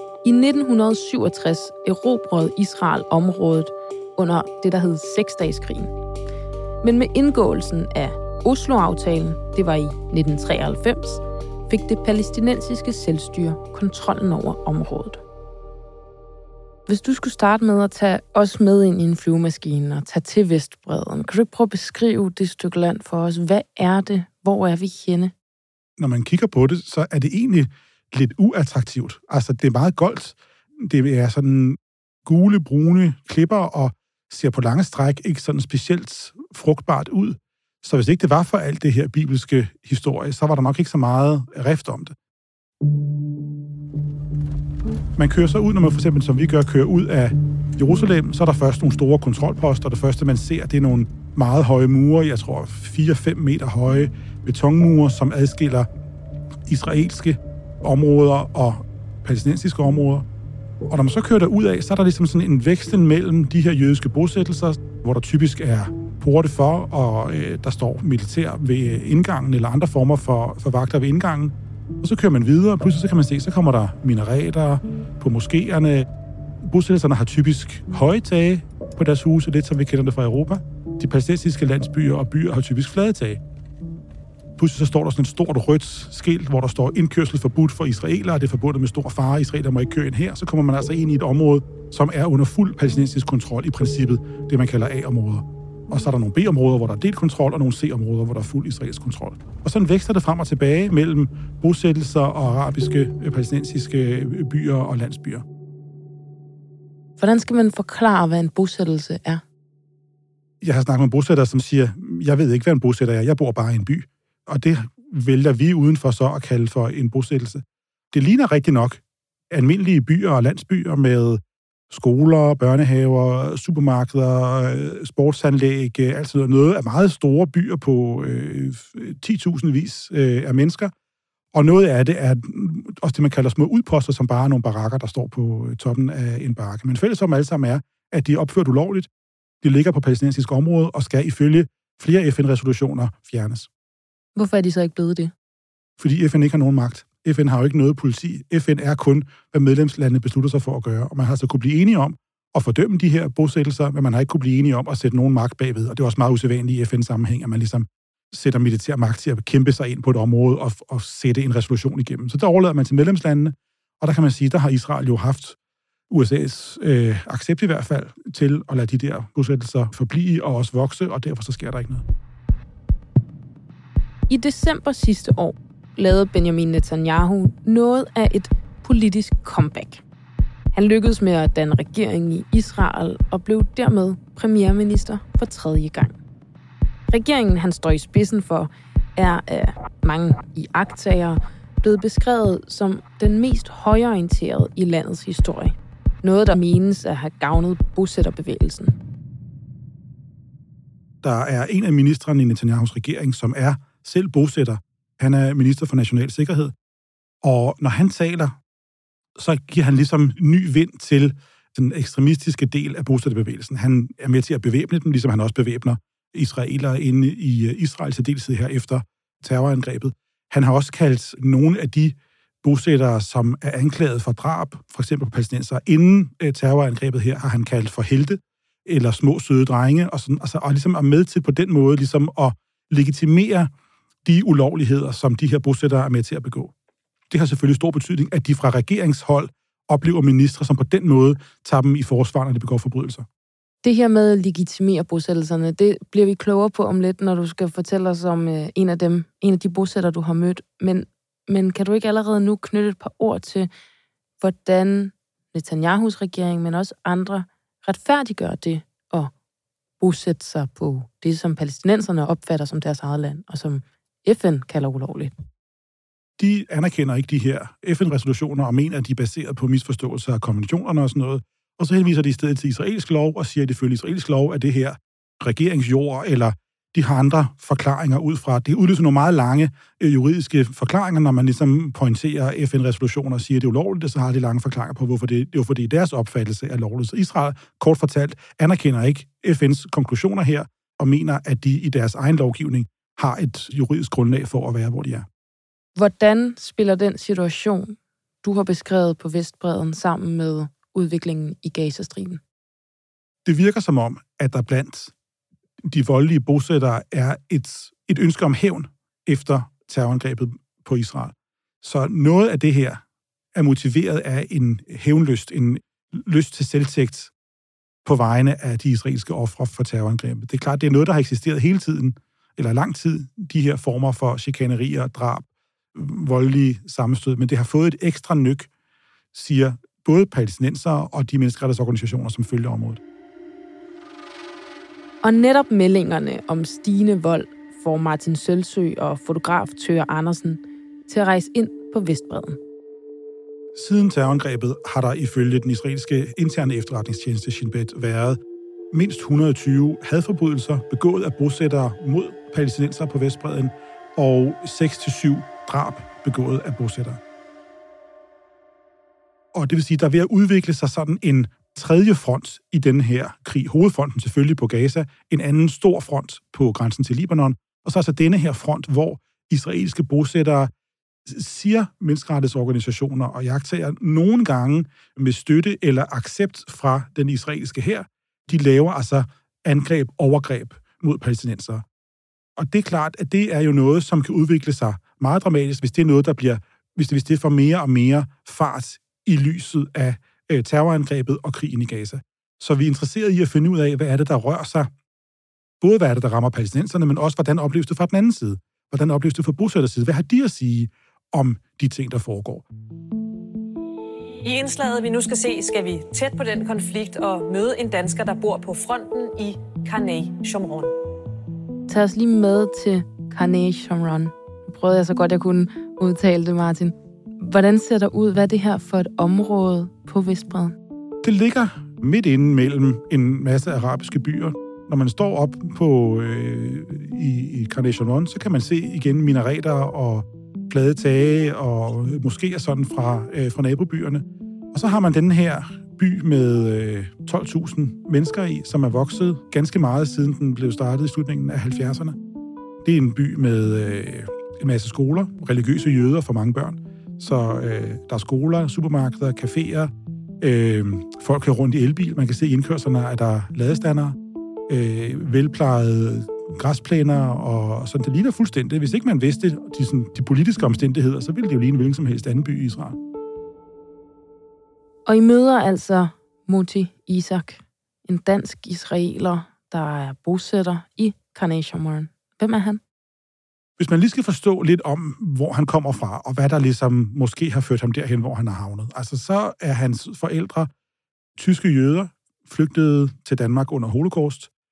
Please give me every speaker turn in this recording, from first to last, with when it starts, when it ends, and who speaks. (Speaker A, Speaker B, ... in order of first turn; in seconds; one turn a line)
Speaker A: 0.2-5.9
Speaker A: 6.8-15.2
Speaker A: 16.9-25.3
Speaker B: 26.0-42.1
Speaker B: 45.2-55.9
Speaker B: 56.7-60.3
Speaker B: 60.9-76.1
Speaker B: 76.6-83.4
Speaker B: 84.6-105.5
Speaker A: 107.2-109.4
Speaker B: 110.6-130.9
Speaker B: 131.5-139.1
Speaker B: 139.6-143.7
Speaker A: 144.4-145.3
Speaker B: 146.0-165.6
Speaker B: 166.1-172.1
Speaker A: 174.3-180.0
Speaker A: 180.7-186.2
Speaker A: 187.1-199.0
Speaker B: 201.2-206.7
Speaker B: 207.4-208.6
Speaker B: 209.4-233.7
Speaker B: 234.2-236.7
Speaker B: 237.3-243.3
Speaker A: 243.8-253.7
Speaker A: 254.4-259.3
Speaker A: 260.0-265.3
Speaker B: 266.4-295.3
Speaker A: 296.0-302.4
Speaker B: 303.4-305.1
Speaker B: 305.8-313.0
Speaker B: 313.6-317.3
Speaker B: 318.1-328.7
Speaker B: 329.3-333.0
Speaker A: 335.2-342.6
Speaker B: 343.8-348.4
Speaker B: 348.9-357.2
Speaker B: 359.5-370.7
Speaker B: 371.3-381.9
Speaker B: 382.6-394.9
Speaker B: 395.8-402.7
Speaker C: 404.4-410.9
Speaker A: 411.9-420.8
Speaker B: 421.2-442.2
Speaker B: 442.8-463.0
Speaker A: 465.1-472.8
Speaker B: 473.8-480.7
Speaker B: 481.4-484.5